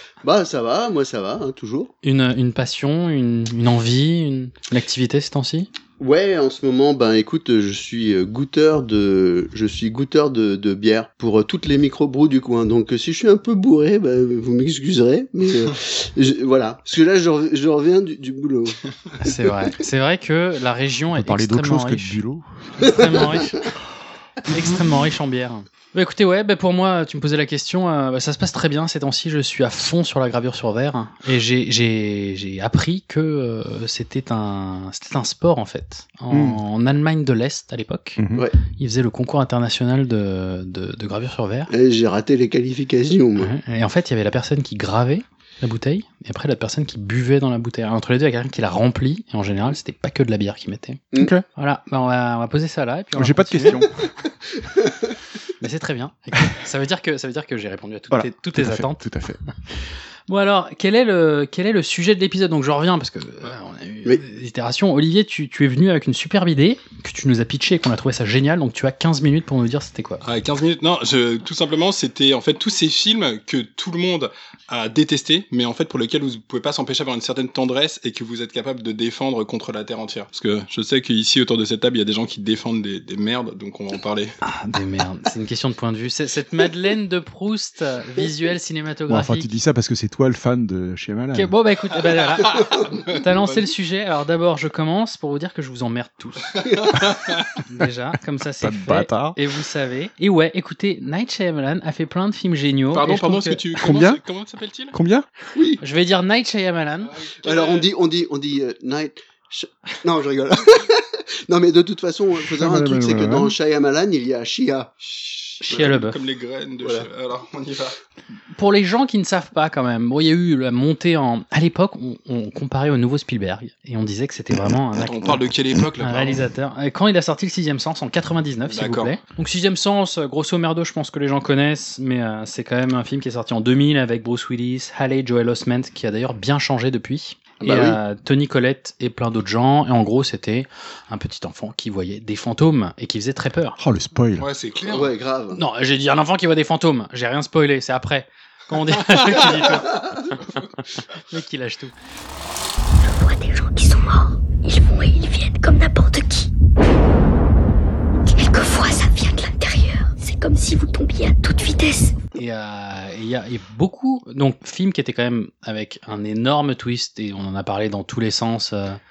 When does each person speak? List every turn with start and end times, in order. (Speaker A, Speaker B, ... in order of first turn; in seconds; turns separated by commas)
Speaker A: 0.2-1.9, Speaker B: 2.0-5.7, Speaker A: 6.0-19.3, Speaker B: 19.2-22.2, Speaker C: 21.1-22.9, Speaker B: 22.8-23.7, Speaker B: 24.5-38.2, Speaker C: 36.3-36.6, Speaker C: 38.2-38.5, Speaker B: 38.8-41.7, Speaker A: 41.7-43.5, Speaker B: 43.4-53.9, Speaker C: 53.1-53.9, Speaker B: 55.6-59.1, Speaker C: 58.1-59.4, Speaker B: 60.3-70.2, Speaker D: 70.2-84.3, Speaker B: 84.4-89.5, Speaker C: 89.1-91.5, Speaker B: 91.3-96.7, Speaker D: 92.4-93.6, Speaker D: 96.8-97.5, Speaker B: 97.7-103.6, Speaker C: 98.6-99.4, Speaker D: 102.9-104.9, Speaker C: 103.8-104.2, Speaker C: 104.9-105.3, Speaker A: 105.5-105.8, Speaker B: 105.8-107.2, Speaker D: 107.2-107.9, Speaker A: 107.4-114.9, Speaker C: 112.5-113.5, Speaker D: 115.1-118.0, Speaker B: 115.6-116.2, Speaker B: 118.5-125.4, Speaker D: 125.0-126.4, Speaker B: 126.0-143.8, Speaker D: 128.7-129.1, Speaker A: 137.6-138.0, Speaker C: 143.8-144.5, Speaker D: 144.4-145.2, Speaker A: 144.9-145.6, Speaker B: 145.5-150.0, Speaker B: 151.3-151.9, Speaker E: 153.0-156.5, Speaker E: 158.3-162.2, Speaker B: 162.4-169.0